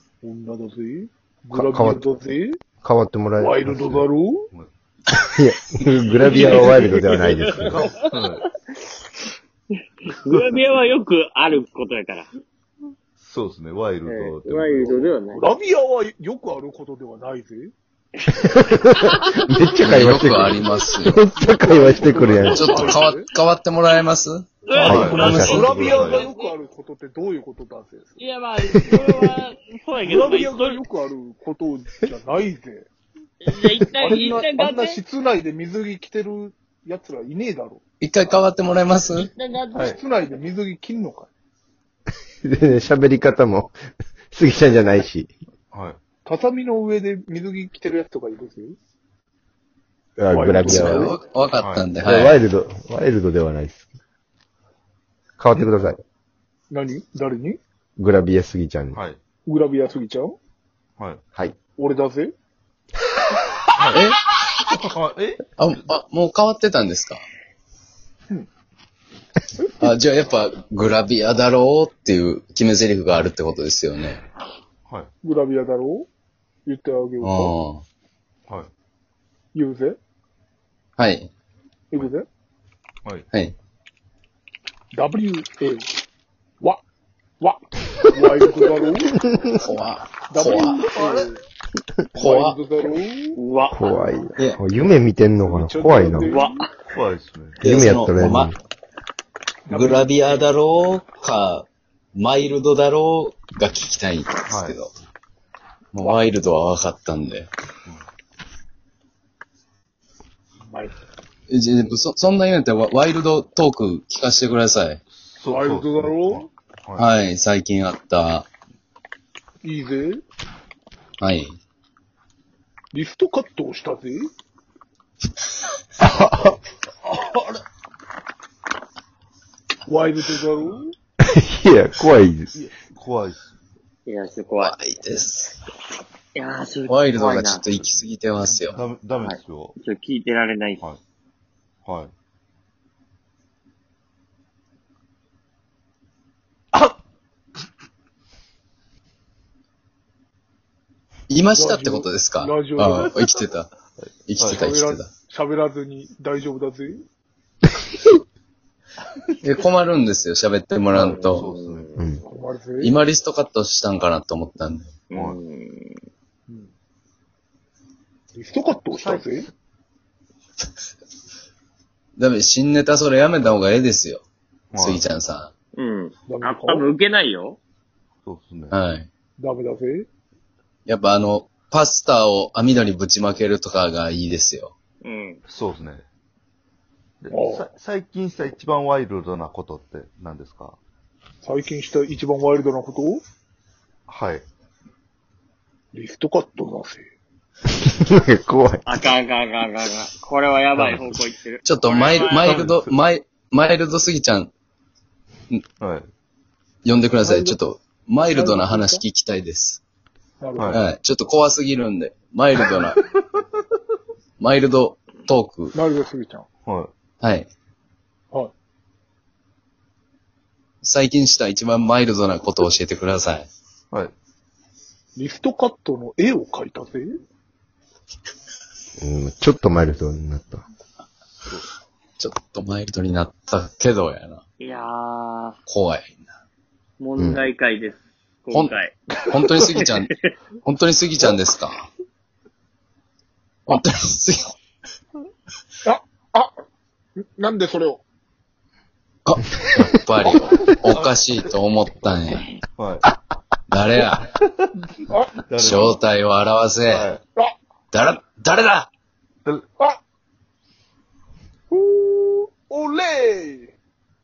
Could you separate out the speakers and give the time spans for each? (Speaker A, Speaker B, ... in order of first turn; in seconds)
Speaker A: 0.2-2.6, 3.4-4.5, 15.3-17.7, 21.4-23.3, 24.8-28.2, 28.8-29.3, 30.0-32.9, 34.0-37.8, 39.7-41.3, 46.2-48.8, 50.3-51.2, 56.7-57.6, 59.5-60.4, 61.8-62.3, 75.2-76.1, 76.7-77.5, 79.5-80.0, 81.9-82.3, 84.9-85.9, 87.4-89.2, 90.3-91.4, 92.2-93.4, 95.4-96.6, 99.7-100.6, 110.7-110.9, 115.5-116.5, 119.6-120.2, 122.9-124.3, 129.9-130.9, 151.5-153.2, 154.5-157.0, 162.3-163.0, 168.3-169.5, 176.3-176.9, 179.4-180.1, 187.3-187.6, 191.4-193.2, 195.9-197.1, 207.2-207.6, 208.2-209.0, 210.4-210.8, 215.7-216.4, 225.2-227.2, 245.8-246.5, 247.2-248.0, 255.1-255.4, 261.7-263.8
Speaker B: 1.5-2.0, 2.8-4.0, 5.1-7.9, 18.4-23.0, 24.8-26.1, 42.4-43.8, 44.3-45.3, 50.2-51.1, 52.0-53.9, 55.4-56.0, 58.0-59.0, 89.2-89.6, 93.7-96.3, 97.6-98.5, 126.0-126.5, 131.2-132.5, 197.8-198.8, 229.0-230.6, 237.2-237.4
Speaker C: 6.1-8.5, 10.0-12.3, 14.0-15.4, 19.0-19.5, 24.6-26.5, 28.2-30.8, 33.4-35.0, 39.1-40.0, 93.4-93.8, 96.3-96.7, 134.1-134.8, 136.4-137.7, 139.2-140.8, 161.4-162.3, 165.1-166.0, 175.8-177.6, 185.0-185.4, 198.9-202.5, 234.6-235.6, 237.0-240.2
Speaker D: 7.6-8.4, 13.2-15.2, 24.8-26.2, 45.7-46.0, 51.6-51.9, 58.9-59.2, 63.8-64.0, 64.7-65.8, 90.7-91.3, 96.9-97.6, 104.5-104.8, 115.1-117.1, 132.6-133.5, 137.8-138.0, 138.7-139.8, 141.8-142.1, 154.0-154.6, 160.9-162.0, 168.9-169.3, 174.7-175.0, 178.2-178.8, 185.5-186.0, 187.2-190.8, 194.1-194.4, 200.8-201.1, 202.4-203.0, 205.8-206.1, 210.6-210.8, 212.6-213.6, 216.6-216.9, 250.9-251.5, 252.8-253.1, 254.4-254.8, 255.4-256.0, 256.9-257.2
Speaker E: 19.8-21.2, 22.5-25.6, 38.0-39.3, 50.6-52.4, 63.9-64.3, 65.5-67.2, 69.8-74.2, 77.2-77.8, 81.0-81.3, 89.6-90.8, 92.1-92.6, 97.6-98.5, 99.7-104.9, 105.9-107.5, 111.5-115.0, 117.0-118.5, 121.2-121.5, 134.6-135.6, 136.9-138.8, 151.3-153.7, 154.3-155.1, 159.4-161.5, 162.8-165.0, 172.2-174.2, 174.8-175.5, 178.7-179.1, 180.9-184.7, 201.6-204.5, 206.8-209.8, 210.7-213.0, 214.4-215.8, 217.2-217.5, 220.8-223.5, 232.2-234.4, 235.7-236.1, 238.5-240.1, 240.6-241.8, 243.7-244.5, 249.2-252.5, 253.7-254.3, 255.6-257.1, 257.9-258.9